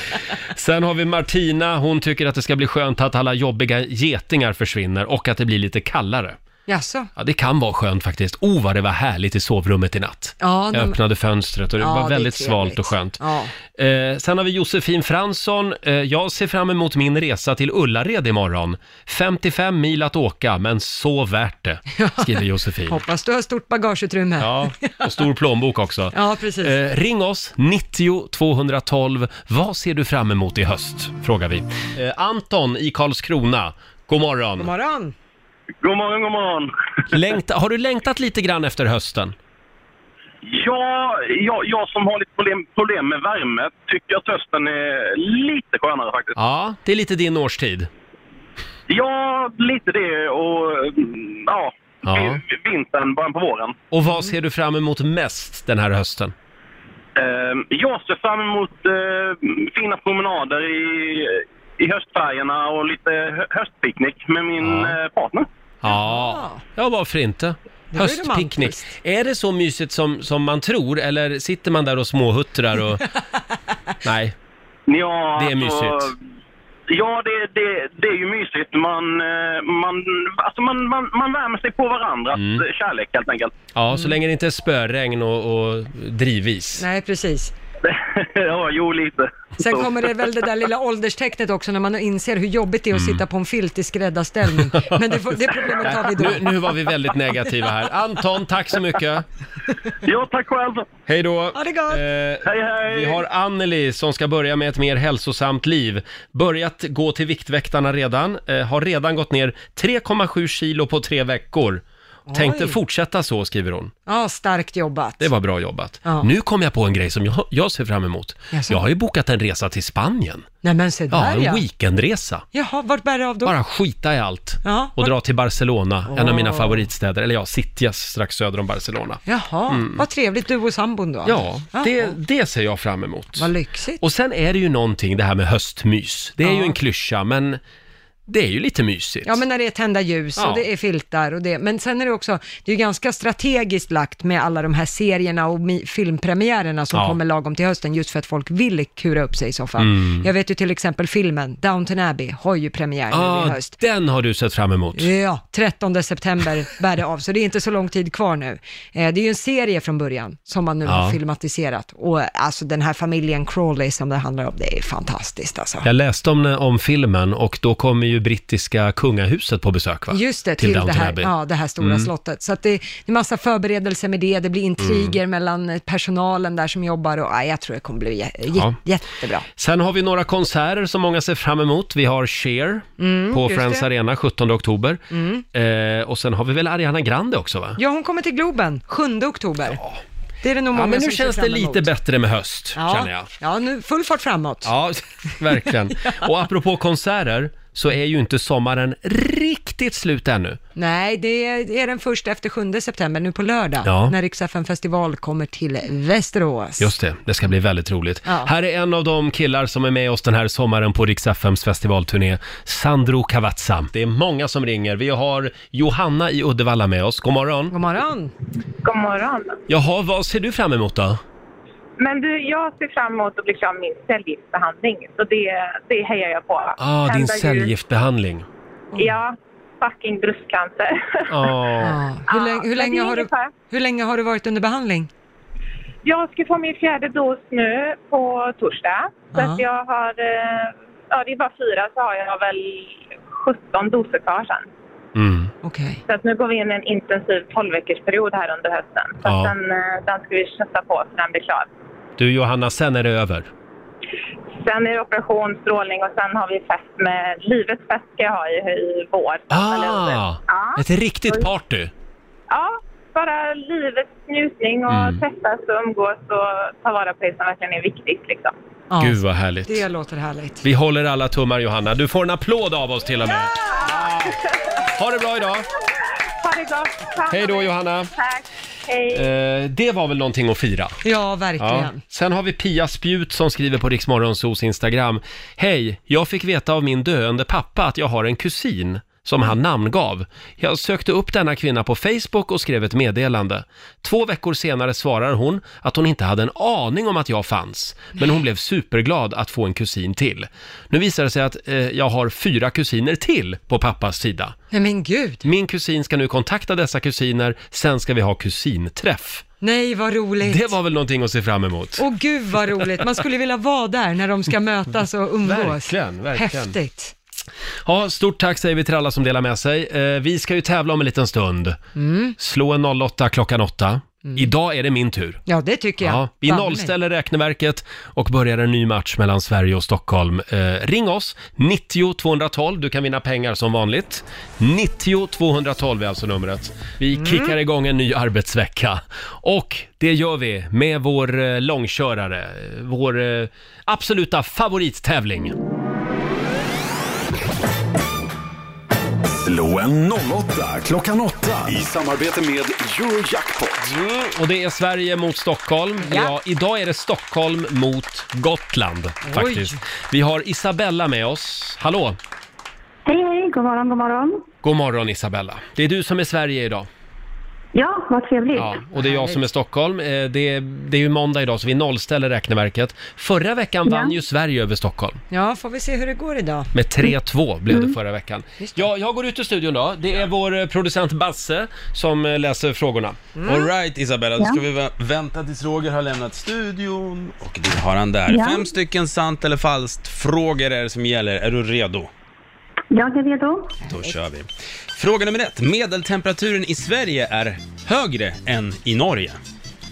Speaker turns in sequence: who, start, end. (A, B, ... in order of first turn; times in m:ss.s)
0:00.5-0:06.4 A
0:06.7-0:07.1 B
0:07.2-0:13.2 A
0:10.4-0:11.0 B
0:11.8-0:13.5 B
0:13.7-0:23.0 A
0:22.0-0:25.1 B
0:24.4-0:34.7 A
0:26.1-0:26.8 B
0:34.6-0:35.1 B
0:35.8-0:36.7 C
0:37.1-0:39.3 A
0:40.4-0:46.4 C
0:46.4-0:47.9 A
0:48.9-0:53.7 C
0:52.0-0:52.4 A
0:53.9-0:56.3 A
0:57.2-1:05.4 C
1:04.6-1:04.9 A
1:05.8-1:13.1 A
1:05.9-1:06.6 B
1:07.9-1:08.9 B
1:14.0-1:14.3 A
1:14.9-1:16.1 C
1:15.4-1:16.1 A
1:16.9-1:23.5 C
1:22.3-1:22.6 A
1:23.7-1:26.8 A
1:26.8-1:27.5 B
1:27.8-1:30.1 C
1:29.6-1:36.8 B
1:32.9-1:33.2 A
1:34.5-1:39.2 A
1:40.0-1:40.9 C
1:41.1-1:53.9 A
1:41.5-1:42.0 B
1:42.4-1:43.2 C
1:52.3-1:52.8 B
1:54.1-1:55.3 B
1:55.2-2:00.5 A
1:56.0-1:56.3 B
1:58.5-1:58.8 B
2:00.6-2:01.6 B
2:01.1-2:02.4 A
2:02.5-2:03.5 B
2:03.4-2:10.0 A
2:04.6-2:05.1 B
2:06.1-2:06.8 B
2:09.2-2:12.1 B
2:11.2-2:17.6 A
2:13.4-2:14.0 B
2:16.4-2:16.8 B
2:18.3-2:19.4 A
2:19.2-2:33.8 B
2:20.4-2:20.6 A
2:26.9-2:27.2 A
2:29.8-2:30.3 A
2:33.1-2:35.1 A
2:35.0-2:45.8 B
2:40.8-2:41.2 A
2:45.8-2:52.1 A
2:50.1-2:59.4 B
2:54.8-2:55.2 A
2:59.6-3:05.0 A
3:03.0-3:03.9 B
3:05.1-3:05.4 B
3:05.5-3:07.8 A
3:07.8-3:09.8 B
3:09.7-3:10.0 A
3:10.4-3:11.9 B
3:10.7-3:13.3 A
3:12.7-3:14.7 B
3:14.6-3:20.6 A
3:20.8-3:26.9 B
3:23.8-3:24.1 A
3:26.8-3:37.8 A
3:28.2-3:28.5 B
3:37.7-3:38.3 B
3:38.8-3:39.6 D
3:39.7-3:41.2 A
3:42.0-3:47.7 D
3:46.8-3:48.4 A
3:49.0-3:51.6 D
3:51.3-3:52.0 A
3:51.8-3:55.1 B
3:52.3-3:53.5 D
3:56.0-4:04.7 D
3:59.3-3:59.6 B
4:05.2-4:05.5 A
4:05.6-4:06.0 B
4:06.0-4:11.7 D
4:09.2-4:09.5 A
4:12.2-4:13.5 A
4:14.6-4:21.5 D
4:19.5-4:21.9 A
4:22.5-4:28.5 D
4:24.9-4:25.2 A
4:28.9-4:30.6 B
4:29.0-4:29.8 A
4:30.6-4:35.7 A
4:33.4-4:34.1 D
4:36.4-4:39.3 D
4:37.3-4:38.1 A
4:39.1-4:41.0 A
4:41.0-4:42.0 B
4:41.6-5:04.6 A
5:04.7-5:05.4 B
5:05.4-5:09.4 A
5:09.6-5:10.7 B
5:10.4-5:12.0 A
5:12.0-5:17.1 B
5:15.4-5:16.7 A
5:17.8-5:21.8 A
5:22.0-5:22.4 B
5:22.4-5:25.4 A
5:24.2-5:24.5 B
5:25.5-5:26.9 B
5:26.0-5:45.6 A
5:37.1-5:37.5 B
5:49.2-5:53.8 E
5:54.0-6:02.2 A
5:56.0-5:56.3 B
5:59.2-5:59.8 B
6:03.0-6:04.4 F
6:04.6-6:06.9 A
6:07.7-6:08.8 F
6:08.5-6:15.2 A
6:08.9-6:09.4 B
6:13.8-6:14.1 F
6:15.3-6:16.7 B
6:16.7-6:23.2 A
6:17.7-6:18.0 F
6:18.6-6:18.9 B
6:23.4-6:23.7 B
6:23.4-6:32.1 G
6:28.3-6:28.7 F
6:32.9-6:33.7 F
6:33.9-6:39.4 G
6:33.9-6:34.2 B